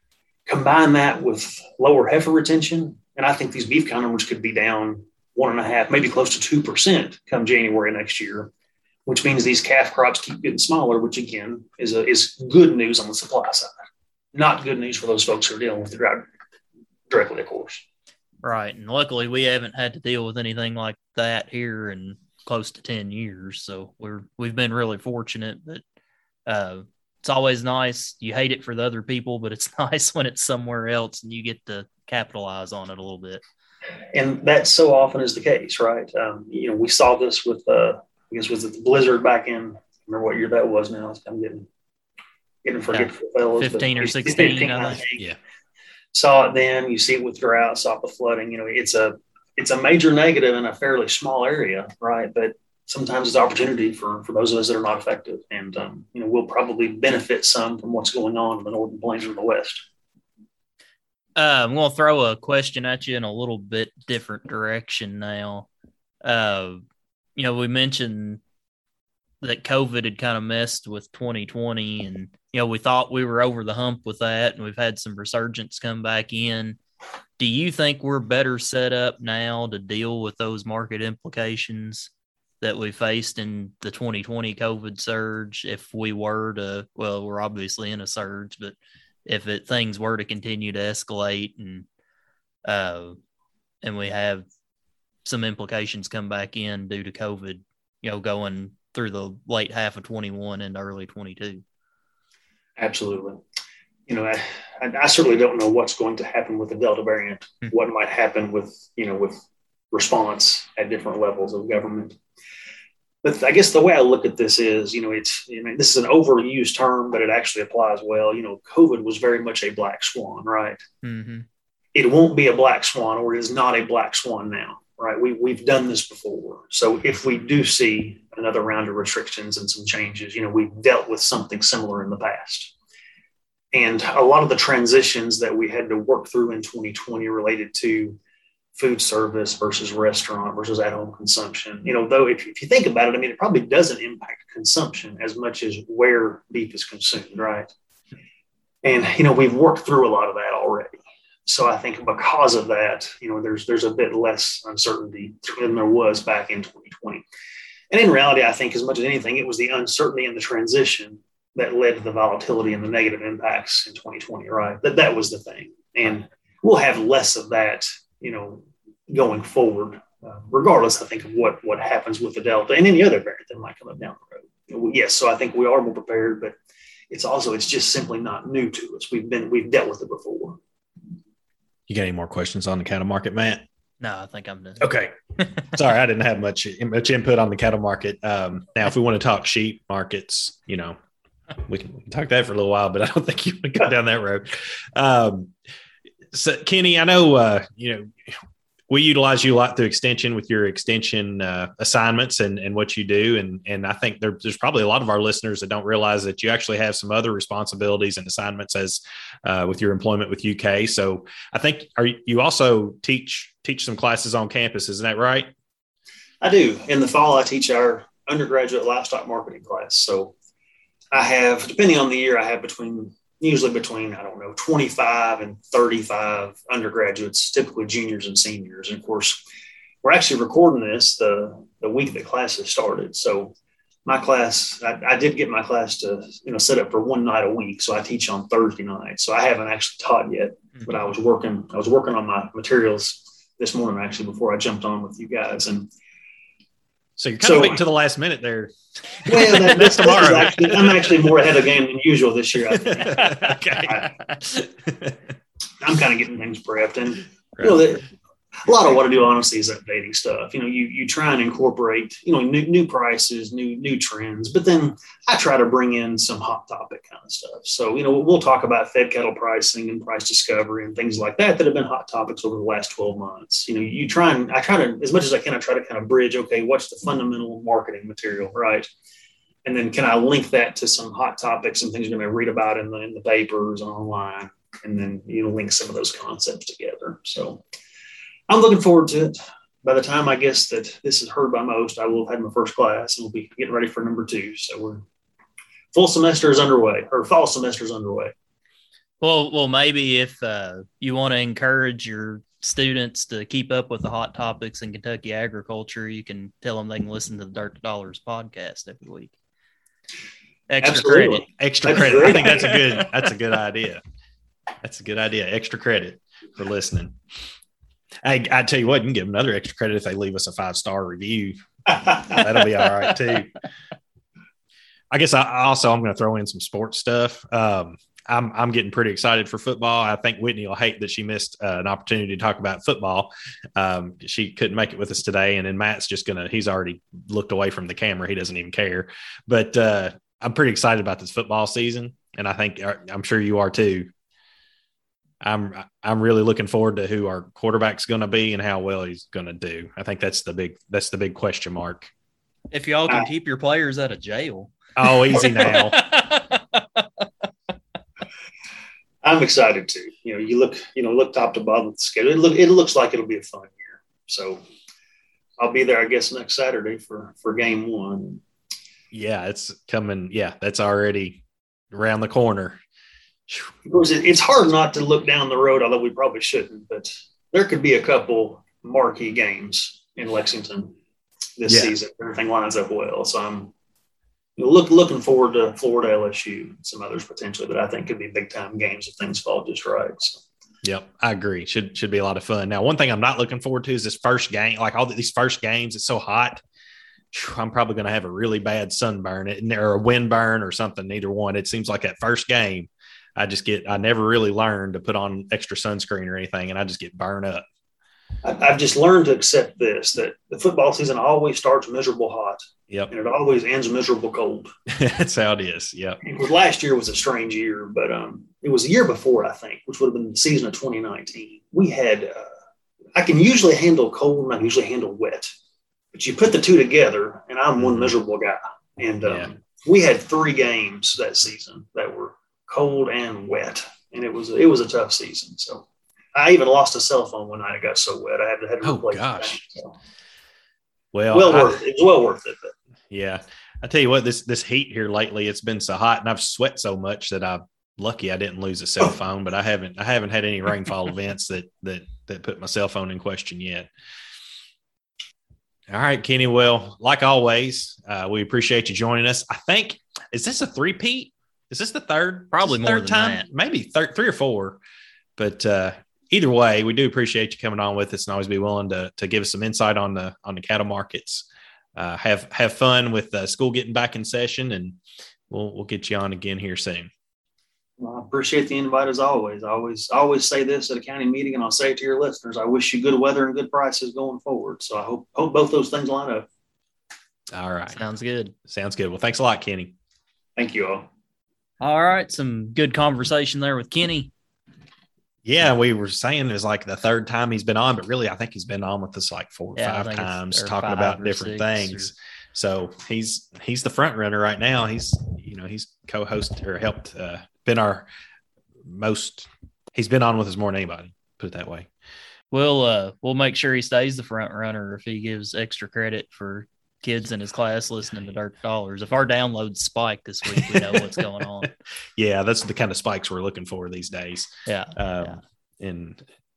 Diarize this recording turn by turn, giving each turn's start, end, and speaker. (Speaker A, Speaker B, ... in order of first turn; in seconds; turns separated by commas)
Speaker A: 0.5-8.5, Speaker A: 9.1-13.7, Speaker A: 14.3-16.3, Speaker A: 17.1-17.8, Speaker B: 18.4-25.8, Speaker B: 26.5-33.4, Speaker A: 34.1-41.7, Speaker A: 42.6-45.2, Speaker B: 42.9-45.0, Speaker A: 46.1-59.8, Speaker B: 61.4-65.7, Speaker B: 66.2-66.8, Speaker B: 67.3-68.4, Speaker B: 69.4-76.8, Speaker B: 77.4-82.1, Speaker B: 82.6-91.8, Speaker B: 92.6-93.2, Speaker B: 93.8-94.5, Speaker B: 95.2-101.6, Speaker A: 102.8-103.4, Speaker A: 104.1-112.2, Speaker A: 113.2-120.8, Speaker B: 121.0-121.5, Speaker A: 121.9-132.7, Speaker A: 133.7-138.2, Speaker A: 138.8-147.7, Speaker A: 148.8-157.2, Speaker A: 157.9-176.6, Speaker A: 177.1-180.6, Speaker C: 181.9-183.6, Speaker B: 184.0-184.9, Speaker C: 184.8-185.1, Speaker C: 185.7-191.0, Speaker C: 191.7-195.5, Speaker C: 196.3-198.4, Speaker C: 198.9-215.5, Speaker A: 216.4-220.3, Speaker A: 221.1-229.4, Speaker A: 230.0-245.9, Speaker C: 247.2-248.7, Speaker A: 247.4-247.8, Speaker C: 249.2-251.3, Speaker A: 249.3-254.1, Speaker C: 252.7-255.2, Speaker A: 255.8-258.1, Speaker A: 258.6-278.9, Speaker A: 279.6-287.6, Speaker A: 288.5-295.0, Speaker A: 295.9-298.3, Speaker B: 299.2-309.3, Speaker B: 310.7-311.4, Speaker A: 310.8-313.1, Speaker C: 311.5-314.0, Speaker C: 314.8-317.2, Speaker C: 318.2-323.5, Speaker C: 325.1-344.1, Speaker C: 345.4-352.1, Speaker B: 352.7-357.1, Speaker C: 354.9-356.0, Speaker A: 359.2-364.6, Speaker A: 365.6-368.4, Speaker C: 369.1-372.8, Speaker A: 373.9-380.9, Speaker A: 381.6-383.7, Speaker C: 381.7-381.9, Speaker A: 384.6-390.4, Speaker C: 390.8-396.6, Speaker C: 397.3-407.6, Speaker A: 408.4-414.7, Speaker C: 414.9-416.2, Speaker A: 416.2-422.5, Speaker A: 423.1-425.5, Speaker A: 426.1-439.9, Speaker C: 427.8-428.1, Speaker C: 429.2-429.5, Speaker C: 438.8-439.6, Speaker C: 441.1-441.8, Speaker A: 441.3-442.7, Speaker C: 443.1-453.9, Speaker C: 455.9-464.8, Speaker B: 462.5-463.4, Speaker C: 465.4-475.0, Speaker C: 475.5-477.1, Speaker A: 478.0-486.5, Speaker C: 487.5-488.0, Speaker B: 487.9-488.5, Speaker C: 488.7-489.9, Speaker A: 490.6-491.1, Speaker B: 491.8-494.3, Speaker C: 495.4-508.1, Speaker B: 499.8-502.1, Speaker C: 508.8-511.9, Speaker B: 512.5-521.7, Speaker C: 520.5-521.1, Speaker C: 521.6-526.2, Speaker B: 524.6-525.4